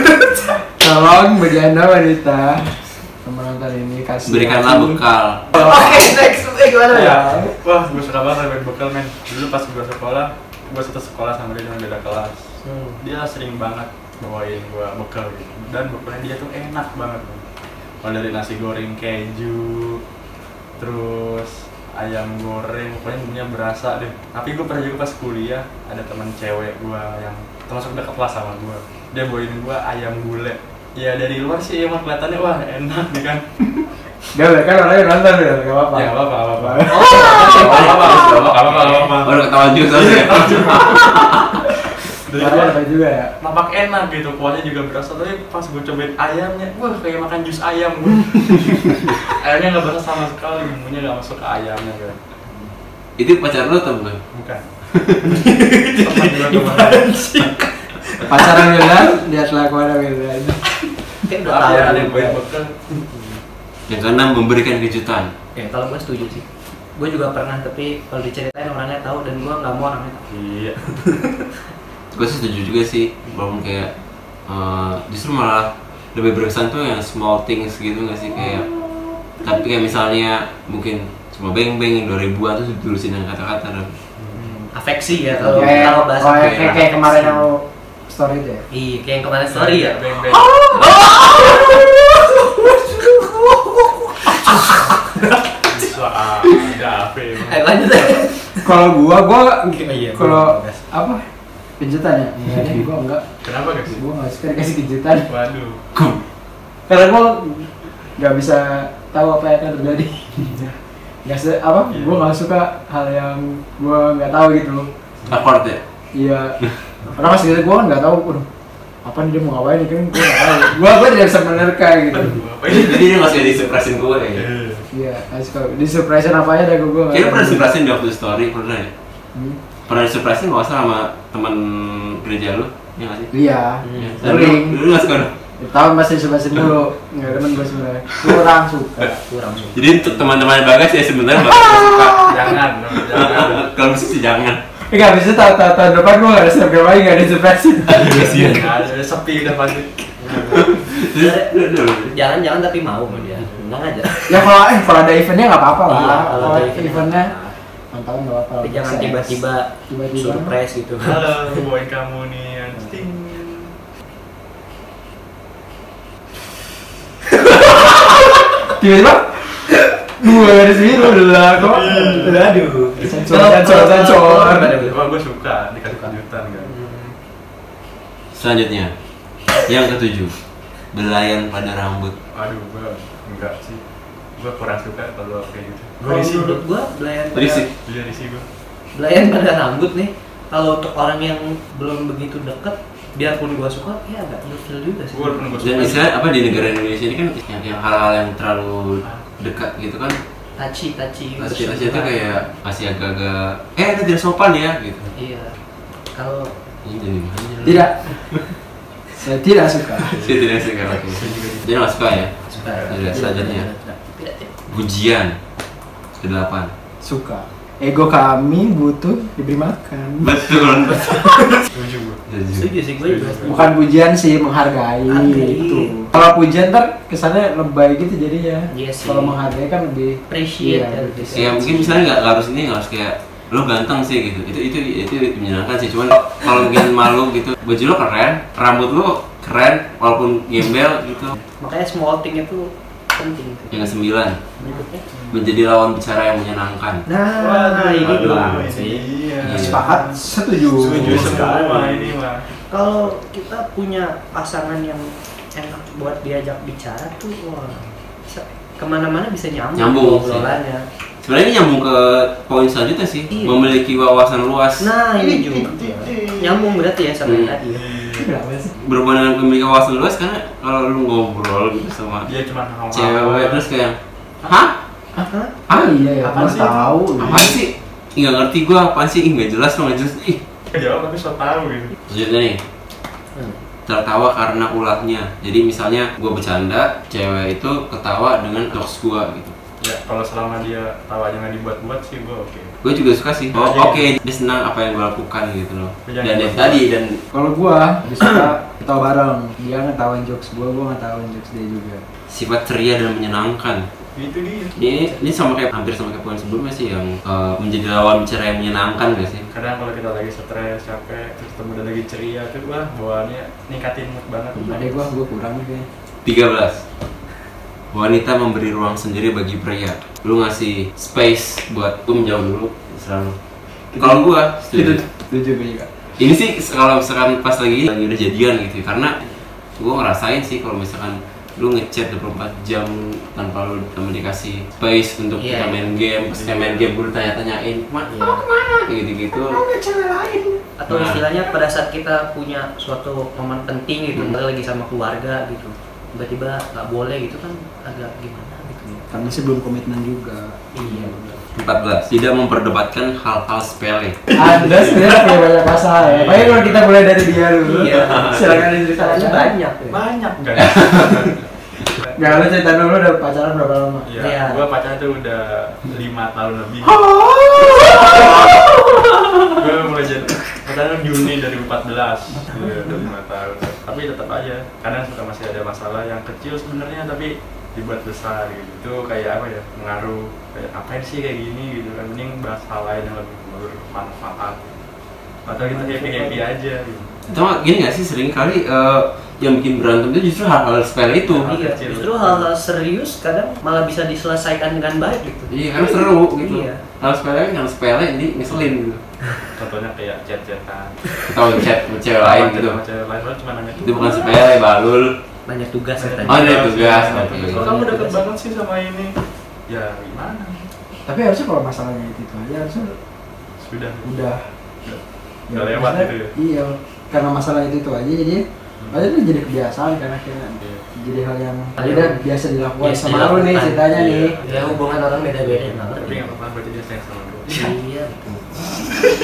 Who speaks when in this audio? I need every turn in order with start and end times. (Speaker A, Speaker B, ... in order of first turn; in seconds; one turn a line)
Speaker A: 0.3-5.0
Speaker B: 4.2-5.5
Speaker C: 5.5-7.5
Speaker A: 5.5-6.1
Speaker D: 6.9-12.5
Speaker C: 12.6-13.0
Speaker D: 13.0-17.4
Speaker D: 18.0-20.0
Speaker D: 20.8-33.4
Speaker A: 34.3-37.4
Speaker D: 35.9-41.1
Speaker C: 36.8-38.3
Speaker B: 37.1-41.8
Speaker D: 42.2-42.8
Speaker A: 42.3-43.3
Speaker D: 43.4-52.2
Speaker B: 53.2-54.2
Speaker D: 54.3-54.7
Speaker B: 54.9-55.4
Speaker C: 55.2-59.0
Speaker D: 56.0-57.4
Speaker A: 58.2-60.6
Speaker C: 61.2-62.4
Speaker D: 61.4-63.0
Speaker C: 63.1-63.4
Speaker B: 63.9-65.3
Speaker C: 65.5-70.2
Speaker D: 70.3-71.0
Speaker B: 72.1-73.9
Speaker B: 74.5-78.7
Speaker B: 79.4-83.9
Speaker D: 84.2-84.5
Speaker C: 84.3-87.4
Speaker D: 85.4-85.7
Speaker A: 85.5-88.6
Speaker B: 86.3-86.8
Speaker C: 88.7-95.4
Speaker D: 89.5-90.7
Speaker A: 91.2-91.6
Speaker D: 95.6-97.7
Speaker C: 97.4-98.7
Speaker A: 98.6-101.2
Speaker C: 99.6-100.8
Speaker A: 101.8-103.2
Speaker D: 103.4-104.0
Speaker A: 103.8-105.3
Speaker D: 105.3-105.8
Speaker B: 105.9-106.2
Speaker A: 106.9-110.3
Speaker D: 110.3-110.8
Speaker A: 111.2-114.9
Speaker D: 111.9-112.3
Speaker B: 115.3-115.8
Speaker A: 116.1-116.6
Speaker A: 117.1-118.4
Speaker A: 119.0-122.4
Speaker D: 122.1-123.6
Speaker B: 122.6-124.5
Speaker D: 124.3-124.9
Speaker A: 124.9-127.7
Speaker B: 127.1-128.9
Speaker A: 129.3-129.6
Speaker B: 129.9-133.3
Speaker A: 133.3-134.8
Speaker C: 133.8-134.2
Speaker B: 134.0-135.3
Speaker A: 135.6-139.2
Speaker C: 139.1-140.3
Speaker B: 139.7-142.5
Speaker A: 141.5-142.5
Speaker D: 142.2-143.7
Speaker B: 143.1-144.6
Speaker A: 144.9-148.4
Speaker D: 147.9-149.9
Speaker B: 147.9-148.7
Speaker C: 150.2-154.4
Speaker B: 150.5-152.1
Speaker D: 153.1-153.6
Speaker A: 154.3-157.3
Speaker C: 155.9-157.5
Speaker A: 157.9-160.5
Speaker C: 158.6-161.2
Speaker D: 161.0-163.8
Speaker A: 168.7-169.6
Speaker A: 170.2-174.7
Speaker D: 171.6-172.4
Speaker C: 172.1-175.0
Speaker D: 174.7-176.7
Speaker C: 175.9-177.1
Speaker B: 178.3-178.9
Speaker B: 179.6-180.3
Speaker B: 180.9-182.1
Speaker D: 182.3-183.8
Speaker D: 184.4-186.6
Speaker C: 186.0-187.7
Speaker B: 187.3-187.7
Speaker D: 187.8-188.4
Speaker C: 188.9-196.0
Speaker D: 195.1-196.1
Speaker B: 195.6-200.2
Speaker C: 200.6-202.5
Speaker B: 201.4-205.1
Speaker C: 205.1-205.6
Speaker C: 206.1-206.5
Speaker B: 206.8-208.4
Speaker A: 207.6-208.0
Speaker A: 209.2-210.2
Speaker D: 210.0-210.5
Speaker B: 210.2-212.3
Speaker D: 211.1-211.7
Speaker D: 212.4-213.2
Speaker C: 212.5-214.5
Speaker B: 212.9-213.7
Speaker A: 213.2-213.8
Speaker B: 214.7-215.3
Speaker B: 216.1-216.7
Speaker A: 217.0-221.3
Speaker B: 220.2-221.6
Speaker D: 221.7-222.2
Speaker B: 222.3-222.7
Speaker C: 222.5-223.7
Speaker D: 223.0-223.6
Speaker A: 223.4-232.0
Speaker C: 225.1-225.9
Speaker C: 228.7-229.4
Speaker C: 230.3-232.1
Speaker B: 231.3-241.4
Speaker C: 241.6-243.9
Speaker B: 243.7-244.4
Speaker C: 244.6-245.0
Speaker D: 244.6-245.4
Speaker B: 245.3-247.0
Speaker C: 247.1-249.0
Speaker D: 247.4-252.5
Speaker B: 248.1-248.7
Speaker A: 249.4-251.4
Speaker B: 249.4-249.8
Speaker B: 251.0-251.6
Speaker C: 251.3-252.0
Speaker C: 252.7-260.8
Speaker B: 259.8-260.6
Speaker B: 261.2-264.9
Speaker C: 263.3-263.7
Speaker C: 264.8-267.8
Speaker D: 265.2-266.6
Speaker B: 267.3-267.5
Speaker D: 267.7-268.3
Speaker A: 268.1-268.8
Speaker B: 268.8-272.3
Speaker D: 272.2-273.6
Speaker B: 272.9-274.7
Speaker A: 275.1-277.6
Speaker C: 275.2-275.5
Speaker D: 276.2-277.6
Speaker B: 277.2-280.4
Speaker D: 280.7-281.9
Speaker B: 282.1-282.6
Speaker B: 283.9-289.5
Speaker D: 289.8-292.7
Speaker B: 292.8-297.2
Speaker D: 293.5-294.2
Speaker D: 296.1-296.9
Speaker A: 297.3-302.0
Speaker B: 302.3-303.9
Speaker D: 304.1-304.8
Speaker B: 304.8-309.5
Speaker D: 309.5-315.1
Speaker A: 314.5-315.9
Speaker B: 316.2-316.8
Speaker B: 317.9-323.3
Speaker A: 323.9-325.9
Speaker B: 323.9-325.0
Speaker B: 326.2-329.2
Speaker B: 329.8-338.2
Speaker C: 335.4-335.8
Speaker D: 336.3-336.9
Speaker C: 338.1-338.4
Speaker A: 338.1-340.6
Speaker B: 338.9-339.6
Speaker C: 340.8-349.1
Speaker B: 340.9-341.2
Speaker A: 349.1-351.1
Speaker C: 350.7-351.4
Speaker B: 351.5-354.2
Speaker A: 354.3-359.5
Speaker D: 356.0-356.9
Speaker C: 357.6-360.0
Speaker D: 359.9-362.5
Speaker A: 362.1-364.1
Speaker D: 364.0-367.1
Speaker C: 364.2-364.6
Speaker A: 367.0-368.8
Speaker D: 367.9-368.5
Speaker D: 369.5-384.7
Speaker D: 385.4-387.2
Speaker A: 385.5-386.4
Speaker B: 387.3-391.5
Speaker D: 391.2-392.5
Speaker C: 391.4-396.8
Speaker B: 395.5-399.0
Speaker D: 399.5-401.2
Speaker B: 401.2-402.8
Speaker D: 402.2-404.3
Speaker B: 403.8-405.1
Speaker C: 405.4-406.6
Speaker D: 405.9-409.1
Speaker B: 406.2-407.6
Speaker C: 407.4-408.2
Speaker D: 409.7-410.7
Speaker A: 411.1-412.9
Speaker D: 413.6-414.1
Speaker A: 414.0-414.4
Speaker D: 414.8-416.3
Speaker A: 415.5-424.4
Speaker C: 421.8-422.2
Speaker C: 422.8-423.8
Speaker D: 423.9-424.8
Speaker C: 424.4-426.2
Speaker D: 425.9-427.7
Speaker C: 427.5-429.0